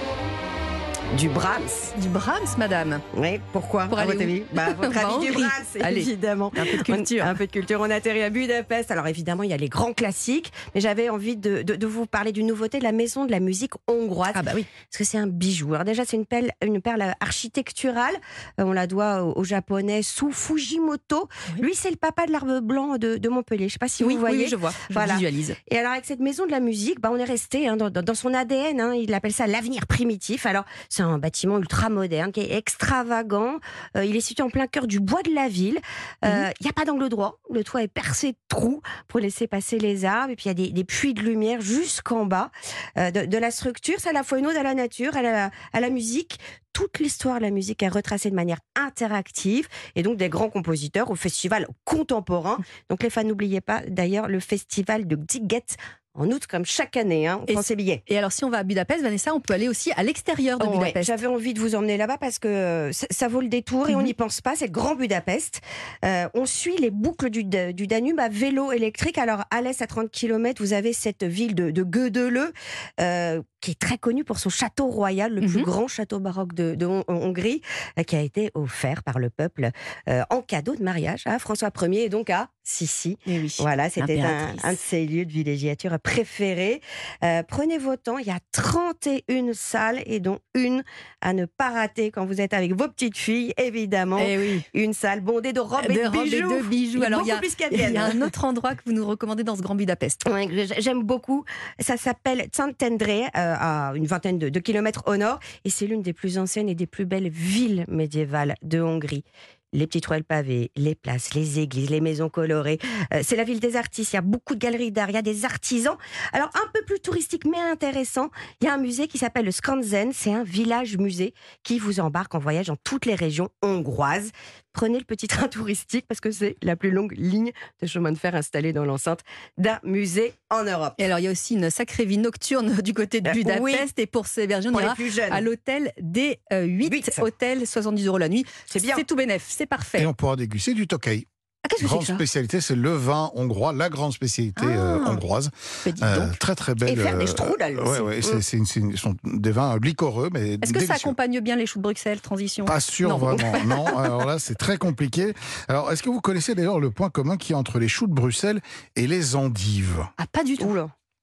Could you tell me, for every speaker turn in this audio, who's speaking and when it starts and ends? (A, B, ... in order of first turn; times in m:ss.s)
0:01.1-0:01.9 A
0:01.9-0:03.0 B
0:03.1-0:58.0 A
0:03.9-0:07.4 B
0:14.3-0:14.7 B
0:24.0-0:25.6 B
0:57.5-1:01.2 B
1:00.6-1:38.2 A
1:15.4-1:15.7 B
1:23.3-1:24.8 B
1:34.2-1:34.7 B
1:35.8-1:40.2 B
1:40.2-2:11.0 A
2:11.0-2:20.1 B
2:13.2-2:13.9 A
2:14.7-2:15.4 A
2:16.8-2:17.3 A
2:18.7-2:19.0 A
2:20.0-2:21.2 C
2:21.6-2:22.2 B
2:21.8-2:31.1 C
2:24.6-2:25.2 B
2:25.8-2:26.4 B
2:26.8-2:28.4 A
2:30.6-2:33.6 B
2:32.7-2:40.1 C
2:40.2-2:40.8 B
2:40.6-2:40.9 A